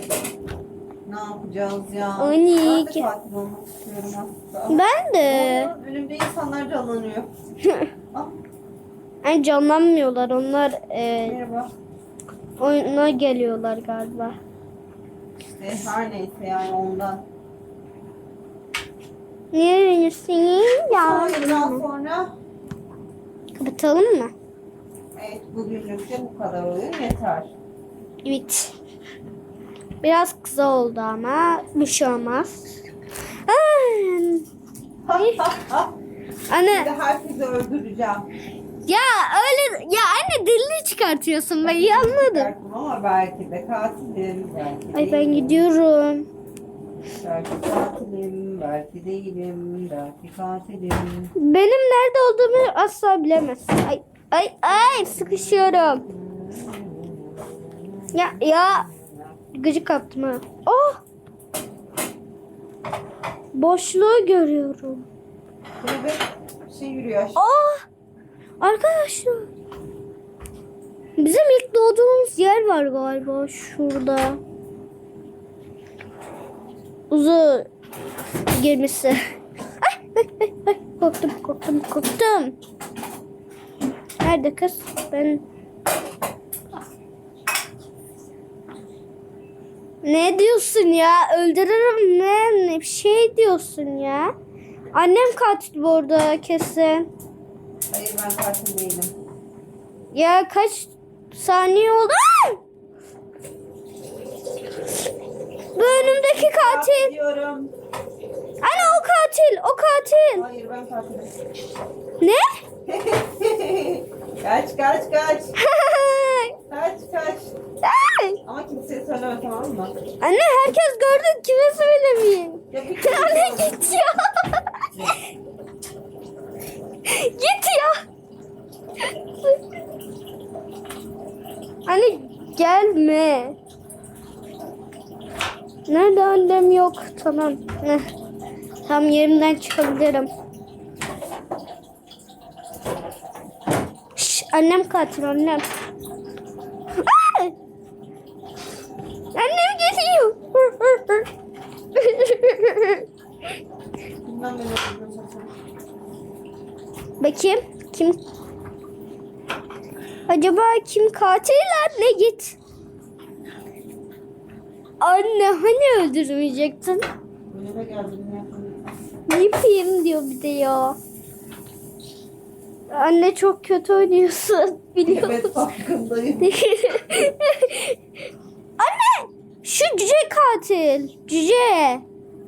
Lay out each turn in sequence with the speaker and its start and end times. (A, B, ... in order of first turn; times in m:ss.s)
0:01.1-0:07.3 A
0:02.2-0:03.1 B
0:04.7-0:05.7 B
0:07.6-0:07.9 B
0:09.2-0:11.4 B
0:11.2-0:11.7 A
0:12.6-0:14.4 B
0:15.5-0:17.2 A
0:19.5-0:21.8 B
0:20.9-0:22.3 A
0:23.6-0:24.3 B
0:25.2-0:27.5 A
0:28.2-0:28.7 B
0:30.0-0:32.8 B
0:33.5-0:34.5 B
0:35.0-0:35.9 A
0:36.5-0:36.9 B
0:36.6-0:38.3 A
0:38.9-0:42.5 B
0:41.6-0:45.6 A
0:44.9-0:46.3 B
0:47.2-0:51.3 A
0:51.4-0:56.1 B
0:54.7-0:59.4 A
0:58.1-0:58.9 B
0:59.5-1:01.0 B
1:03.5-1:05.1 B
1:05.8-1:07.5 A
1:07.4-1:07.8 B
1:08.6-1:09.5 B
1:11.2-1:14.4 B
1:17.1-1:17.7 B
1:18.5-1:19.2 B
1:19.8-1:22.6 B
1:24.2-1:25.4 B
1:30.0-1:34.3 B
1:34.9-1:37.1 B
1:37.9-1:39.1 A
1:40.1-1:42.6 B
1:45.8-1:47.7 A
1:45.8-1:47.1 B
1:48.6-1:50.4 B
1:48.7-1:49.0 A
1:50.3-1:51.3 A
1:52.2-1:52.5 B
1:52.9-1:55.6 A
1:55.6-1:56.6 B
1:56.7-1:57.5 A
1:57.8-1:58.4 B
1:58.4-1:59.9 A
2:00.2-2:05.2 B
2:02.7-2:04.1 A
2:07.0-2:08.0 B
2:09.0-2:09.6 B
2:11.9-2:13.6 B
2:15.9-2:18.1 B
2:18.8-2:20.3 B
2:24.2-2:25.6 B
2:26.9-2:27.5 B
2:29.3-2:31.3 B
2:31.9-2:33.1 B
2:34.2-2:35.5 A
2:37.2-2:38.2 B
2:40.3-2:42.6 B
2:45.0-2:47.1 B
2:47.5-2:48.9 A
2:49.3-2:51.0 B
2:52.9-2:55.6 B
2:55.1-2:56.6 A
2:56.4-2:58.0 B
2:58.8-3:02.0 B